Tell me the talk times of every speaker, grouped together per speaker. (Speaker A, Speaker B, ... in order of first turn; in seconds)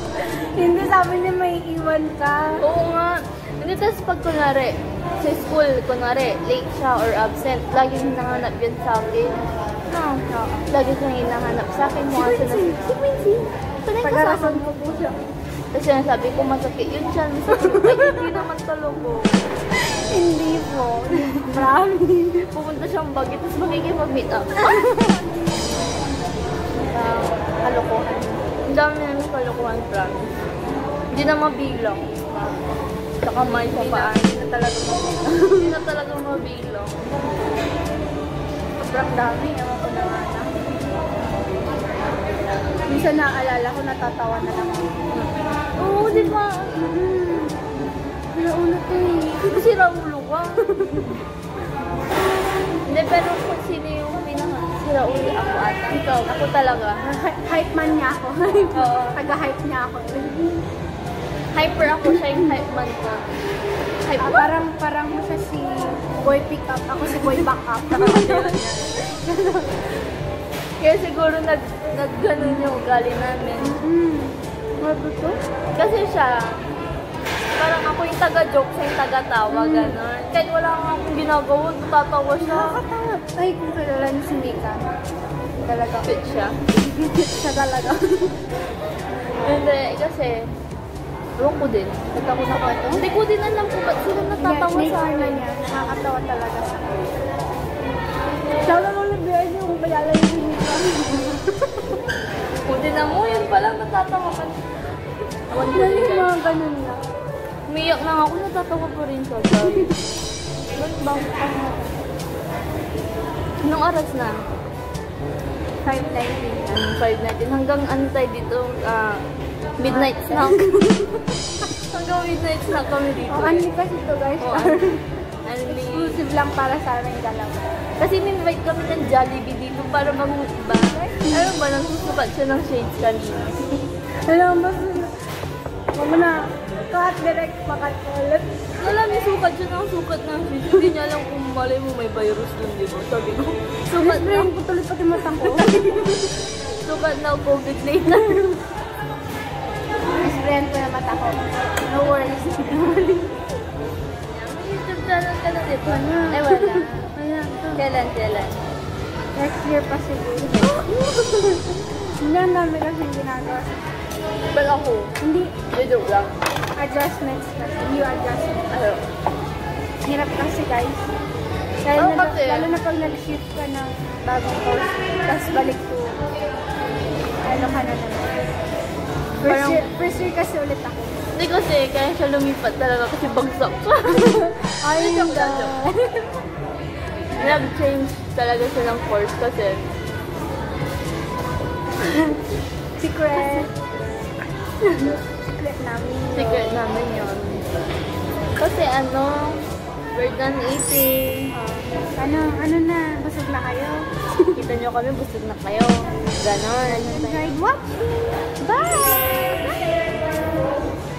Speaker A: 0.6-2.6, 12.1-13.5, 14.0-15.2, 17.6-18.4, 20.1-22.5, 24.7-25.2, 26.9-28.4, 32.3-32.6, 33.7-35.7, 38.8-40.6, 42.9-45.0, 46.1-47.6, 48.3-49.7, 50.6-51.2, 57.0-60.6, 62.1-62.5, 64.2-69.9, 73.6-75.4, 79.5-80.0, 82.4-84.9, 85.7-86.2, 86.8-88.4, 92.4-93.0, 94.4-97.2, 98.6-101.9, 105.7-107.0, 111.4-111.9, 115.8-116.8, 119.8-121.3, 123.3-125.2, 125.7-127.7, 131.1-131.5, 134.3-135.2, 135.9-138.7, 143.9-146.0, 150.2-153.4, 155.9-157.8, 159.3-163.9, 165.2-165.6, 166.8-168.7, 170.0-171.1, 171.8-176.2, 177.4-178.4, 179.4-181.2, 184.1-186.3, 192.0-192.4, 193.0-193.7, 194.9-196.8, 201.5-204.5, 206.8-209.7
Speaker B: 2.6-9.4, 9.9-13.0, 13.8-14.7, 15.7-19.5, 22.4-24.9, 28.7-30.3, 31.1-32.0, 33.2-34.4, 35.5-37.2, 45.1-46.9, 49.4-51.1, 52.9-57.0, 58.7-59.2, 61.5-63.2, 64.0-64.5, 67.1-68.9, 70.8-73.8, 75.8-76.4, 77.6-82.8, 86.0-86.5, 89.4-90.5, 91.4-95.4, 102.7-104.6, 105.5-106.3, 107.7-110.0, 110.7-111.6, 113.6-114.3, 116.7-119.2, 119.8-120.7, 121.9-123.7, 124.4-125.0, 125.5-126.2, 128.0-133.6, 138.8-144.5, 145.3-148.6, 154.3-156.9, 157.8-158.6, 160.6-161.1, 164.5-165.2, 165.7-166.3, 168.7-169.0, 172.0-172.7, 179.4-179.9, 181.3-185.8, 187.3-189.9, 196.3-197.6, 198.6-199.6, 200.2-201.5, 204.6-207.5, 208.7-209.7